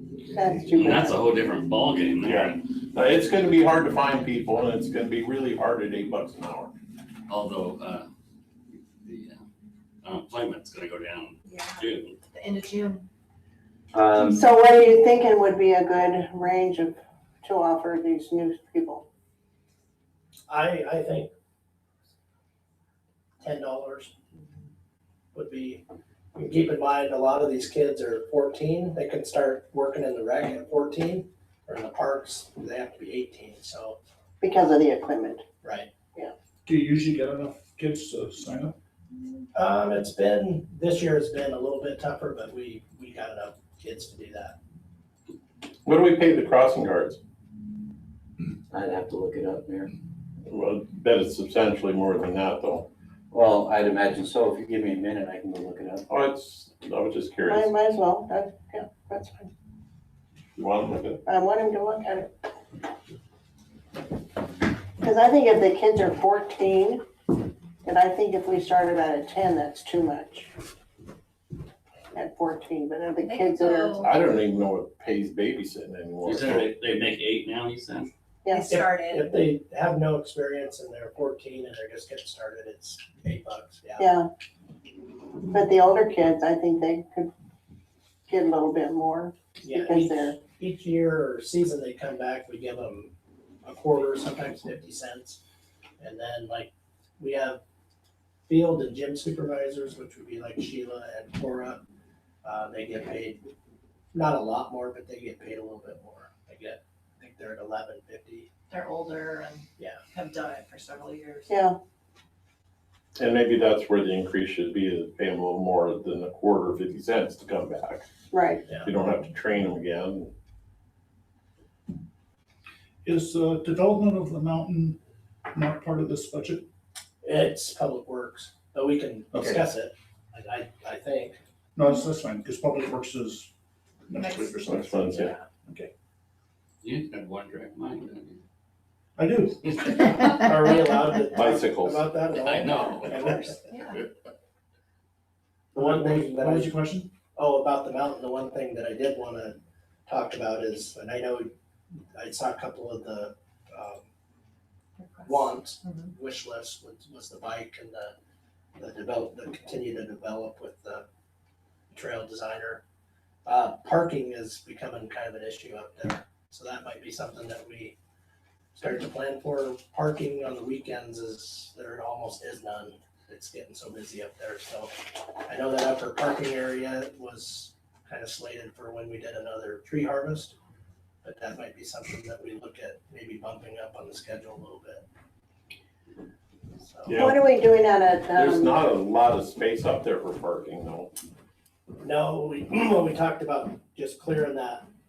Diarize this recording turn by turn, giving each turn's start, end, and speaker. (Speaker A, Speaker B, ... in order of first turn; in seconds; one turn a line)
Speaker A: 0.2-1.2
Speaker B: 0.7-2.6
Speaker C: 2.2-6.7
Speaker B: 7.3-8.1
Speaker B: 9.0-9.4
Speaker B: 10.0-12.2
Speaker D: 11.5-13.0
Speaker E: 13.9-14.4
Speaker A: 14.2-19.0
Speaker F: 20.5-21.3
Speaker F: 23.4-24.1
Speaker F: 25.3-25.8
Speaker F: 26.3-34.0
Speaker A: 34.4-35.4
Speaker F: 35.6-35.9
Speaker G: 36.6-38.8
Speaker F: 39.5-44.6
Speaker C: 45.8-47.2
Speaker E: 48.7-49.9
Speaker C: 50.5-52.9
Speaker E: 53.3-56.0
Speaker C: 56.1-57.7
Speaker A: 57.5-59.5
Speaker C: 60.5-61.2
Speaker A: 61.2-62.3
Speaker A: 65.0-67.0
Speaker A: 67.8-70.5
Speaker A: 72.1-74.1
Speaker D: 73.2-74.1
Speaker C: 74.0-76.7
Speaker B: 76.2-78.1
Speaker A: 78.4-78.7
Speaker D: 78.5-79.4
Speaker F: 78.7-84.1
Speaker A: 84.0-84.3
Speaker A: 85.5-87.3
Speaker A: 88.3-90.3
Speaker F: 89.6-93.1
Speaker F: 93.6-95.4
Speaker F: 96.0-97.6
Speaker F: 98.5-101.8
Speaker F: 102.4-103.4
Speaker F: 104.1-108.5
Speaker D: 108.7-111.5
Speaker A: 111.5-111.8
Speaker C: 113.2-118.0
Speaker A: 118.3-118.6
Speaker C: 118.8-120.3
Speaker G: 123.0-125.0
Speaker G: 125.5-126.6
Speaker F: 127.2-131.4
Speaker G: 129.3-129.6
Speaker G: 131.7-133.5
Speaker G: 134.1-135.9
Speaker C: 134.6-135.3
Speaker B: 136.8-138.4
Speaker G: 139.2-140.1
Speaker F: 140.3-143.6
Speaker C: 141.3-142.1
Speaker B: 142.3-143.4
Speaker D: 143.7-143.9
Speaker G: 145.7-147.1
Speaker F: 145.8-146.7
Speaker F: 147.3-149.6
Speaker F: 150.1-151.5
Speaker F: 152.1-154.0
Speaker D: 155.0-156.1
Speaker F: 155.2-158.1
Speaker F: 158.8-161.0
Speaker F: 161.9-162.8
Speaker F: 163.4-167.9
Speaker F: 168.8-180.5
Speaker F: 181.2-185.0
Speaker F: 186.8-187.2
Speaker C: 187.1-187.3
Speaker A: 187.1-188.8
Speaker C: 188.3-191.1
Speaker F: 192.0-194.8